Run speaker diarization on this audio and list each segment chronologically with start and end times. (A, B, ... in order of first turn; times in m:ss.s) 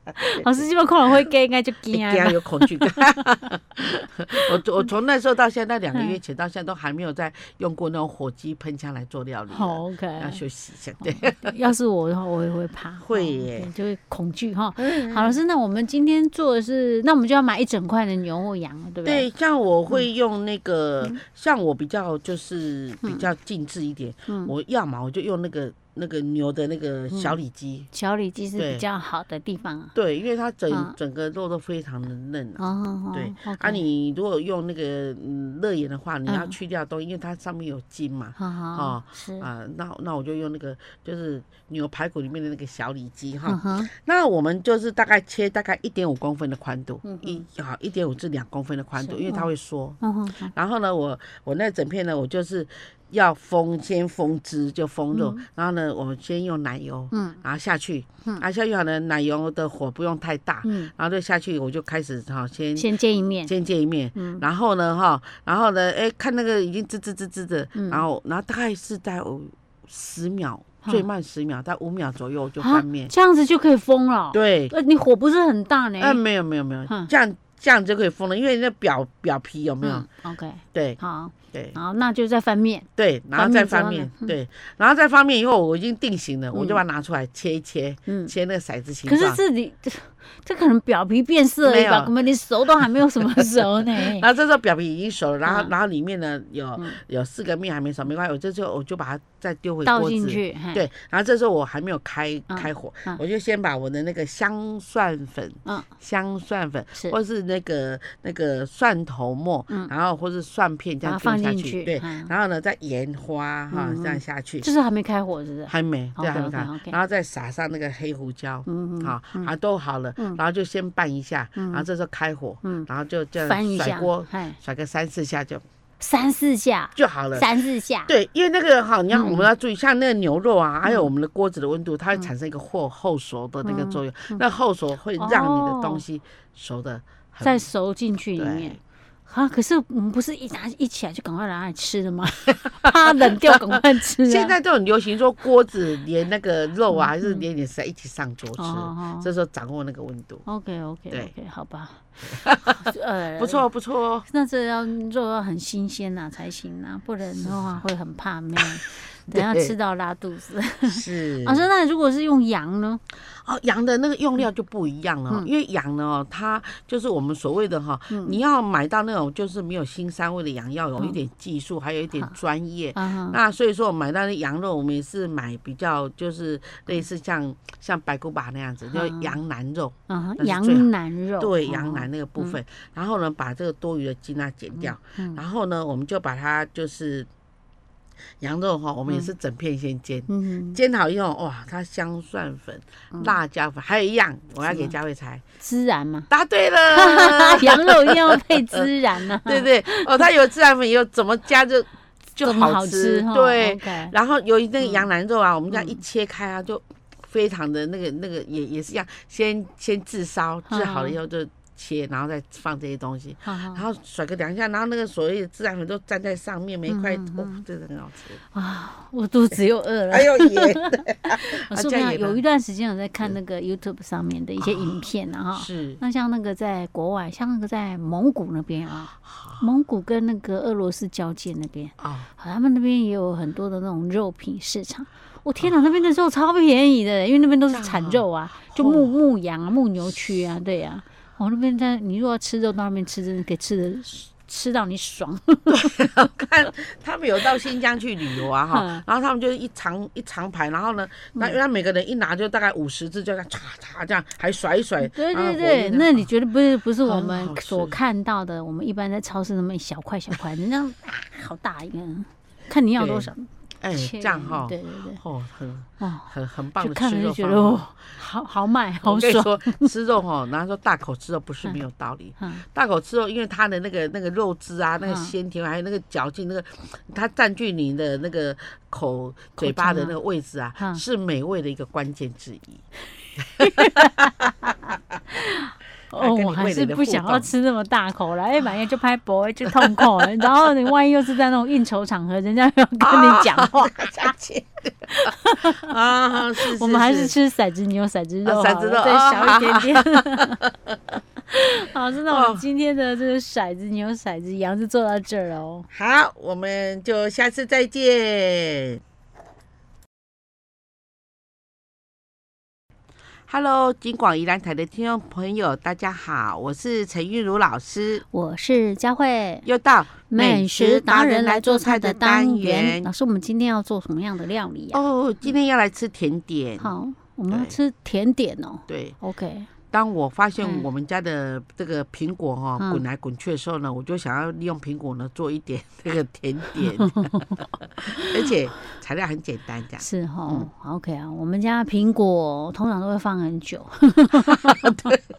0:00.2-0:03.2 A
0:01.9-0:11.6 B
0:09.5-0:10.4 A
0:11.0-0:19.3 A
0:13.0-0:13.7 B
0:14.8-0:15.4 B
0:19.0-0:27.9 B
0:24.3-0:24.5 A
0:27.1-0:27.4 A
0:27.9-0:30.0 A
0:28.6-0:28.8 B
0:30.0-1:02.9 B
0:30.7-0:31.0 A
0:32.6-0:33.8 A
0:36.3-0:36.6 A
0:38.4-0:39.5 A
0:43.5-0:43.9 A
0:47.0-0:47.4 A
0:49.0-0:49.5 A
0:50.0-0:50.5 A
0:55.1-0:55.4 A
0:57.1-0:57.4 A
1:00.6-1:00.9 A
1:02.8-1:03.5 A
1:03.5-1:13.1 B
1:04.2-1:04.4 A
1:07.8-1:08.0 A
1:12.6-1:16.2 A
1:14.3-1:14.7 B
1:16.0-1:20.1 B
1:19.8-1:24.4 A
1:20.7-1:21.0 B
1:21.5-1:21.8 B
1:23.0-1:29.4 B
1:26.5-1:26.8 A
1:28.1-1:28.3 A
1:29.0-1:34.3 A
1:31.6-1:54.7 B
1:35.4-1:35.7 A
1:39.8-1:40.8 A
1:42.5-1:43.2 A
1:51.0-1:52.3 A
1:53.7-1:57.0 A
1:55.7-2:05.6 B
1:58.7-1:59.5 A
2:01.6-2:01.9 A
2:02.6-2:02.9 A
2:03.4-2:04.6 A
2:06.0-2:08.1 A
2:07.0-2:07.5 B
2:08.1-2:17.7 B
2:09.1-2:09.5 A
2:10.8-2:11.1 A
2:13.6-2:14.4 A
2:15.2-2:16.0 A
2:17.4-2:24.5 A
2:18.4-2:18.8 B
2:22.8-2:23.6 B
2:24.2-2:30.4 B
2:26.9-2:27.4 A
2:28.6-2:29.3 A
2:30.5-2:33.7 A
2:32.3-2:32.8 B
2:33.4-2:34.3 B
2:34.2-2:43.0 A
2:37.3-2:37.8 B
2:38.6-2:39.8 B
2:40.9-2:41.7 B
2:43.3-3:07.3 B
2:48.1-2:48.4 A
2:53.0-2:53.4 A
2:58.9-2:59.4 A
3:00.1-3:02.6 A
3:04.8-3:05.4 A
3:08.4-3:15.4 B
3:10.3-3:10.8 A
3:14.6-3:14.9 A
3:15.6-3:16.3 A
3:16.3-3:18.8 B
3:16.9-3:20.3 A
3:19.4-3:38.4 B
3:22.4-3:24.1 A
3:24.8-3:25.1 A
3:25.7-3:26.0 A
3:30.7-3:31.2 A
3:33.4-3:33.8 A
3:36.9-3:37.6 A
3:38.5-4:05.9 A
3:40.1-3:42.4 B
3:44.6-3:46.0 B
3:49.2-3:49.6 B
3:52.0-3:52.3 B
3:57.7-3:59.1 B
4:05.7-4:16.3 B
4:08.7-4:09.0 A
4:15.0-4:25.2 A
4:17.0-4:18.0 B
4:23.0-4:23.3 B
4:23.8-4:28.1 B
4:26.0-4:29.9 A
4:29.0-4:42.8 B
4:32.4-4:32.6 A
4:35.0-4:35.3 A
4:39.6-4:40.2 A
4:40.8-4:41.0 A
4:43.6-4:44.7 A
4:43.6-4:44.5 B
4:45.3-4:54.3 A
4:46.1-4:47.5 B
4:49.7-4:50.5 B
4:53.0-4:57.4 B
4:55.1-4:55.9 A
4:56.6-5:00.6 A
4:58.4-5:00.5 B
5:01.5-5:05.9 A
5:02.3-5:02.6 B
5:05.9-5:09.0 B
5:13.5-5:18.2 B
5:18.3-5:19.7 A
5:19.6-5:23.1 B
5:20.3-5:25.0 A
5:24.9-5:26.9 B
5:26.8-5:29.7 A
5:27.5-5:27.8 B
5:28.9-5:29.2 B
5:29.9-5:40.7 B
5:30.6-5:30.9 A
5:32.8-5:33.0 A
5:36.8-5:38.4 A
5:40.0-5:45.1 A
5:44.5-5:45.2 B